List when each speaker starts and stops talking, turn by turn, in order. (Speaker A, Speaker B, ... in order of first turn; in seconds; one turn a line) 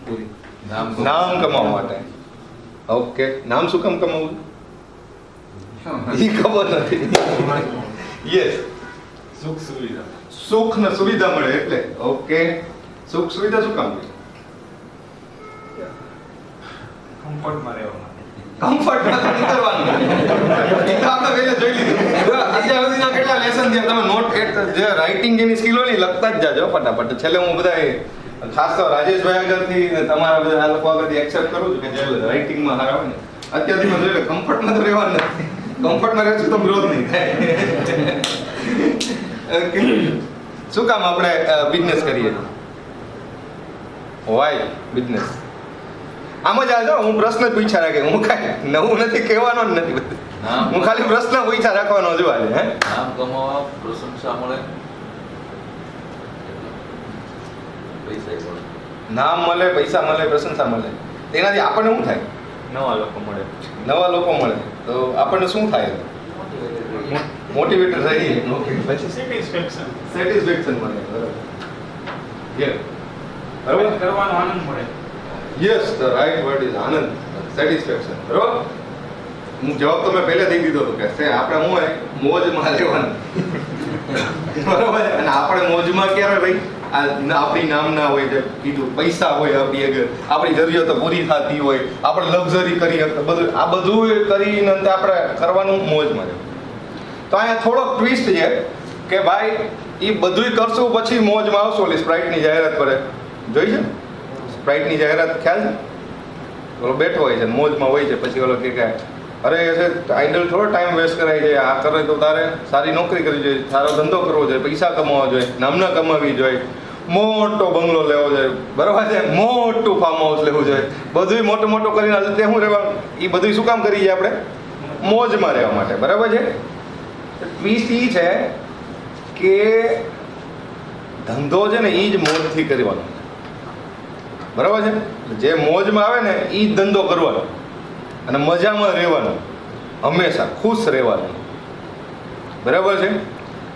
Speaker A: 0.6-1.8
Speaker B: 0.8-2.0
Speaker B: 2.9-4.4
Speaker B: 5.9-8.6
Speaker C: 7.4-7.8
Speaker C: 9.4-10.1
Speaker B: 10.3-12.5
Speaker B: 13.1-14.1
Speaker C: 17.2-18.2
Speaker B: 18.6-42.5
Speaker B: 44.3-45.4
Speaker B: 46.4-52.8
Speaker A: 50.4-51.1
Speaker A: 52.8-54.6
Speaker A: 56.4-57.0
Speaker A: 57.9-58.6
Speaker B: 59.1-62.2
Speaker B: 63.8-66.0
Speaker A: 66.3-67.2
Speaker B: 67.4-69.2
Speaker C: 69.3-69.8
Speaker B: 70.0-71.4
Speaker B: 72.5-72.8
Speaker B: 73.6-74.0
Speaker C: 73.7-74.9
Speaker B: 75.5-78.7
Speaker B: 79.6-96.4
Speaker B: 97.3-103.9
Speaker B: 104.4-105.8
Speaker B: 106.8-124.4
Speaker B: 125.0-126.5
Speaker B: 127.4-128.5
Speaker B: 129.3-130.0
Speaker B: 131.2-133.2
Speaker B: 134.5-137.5
Speaker B: 138.3-139.4
Speaker B: 140.0-141.4
Speaker B: 142.6-143.2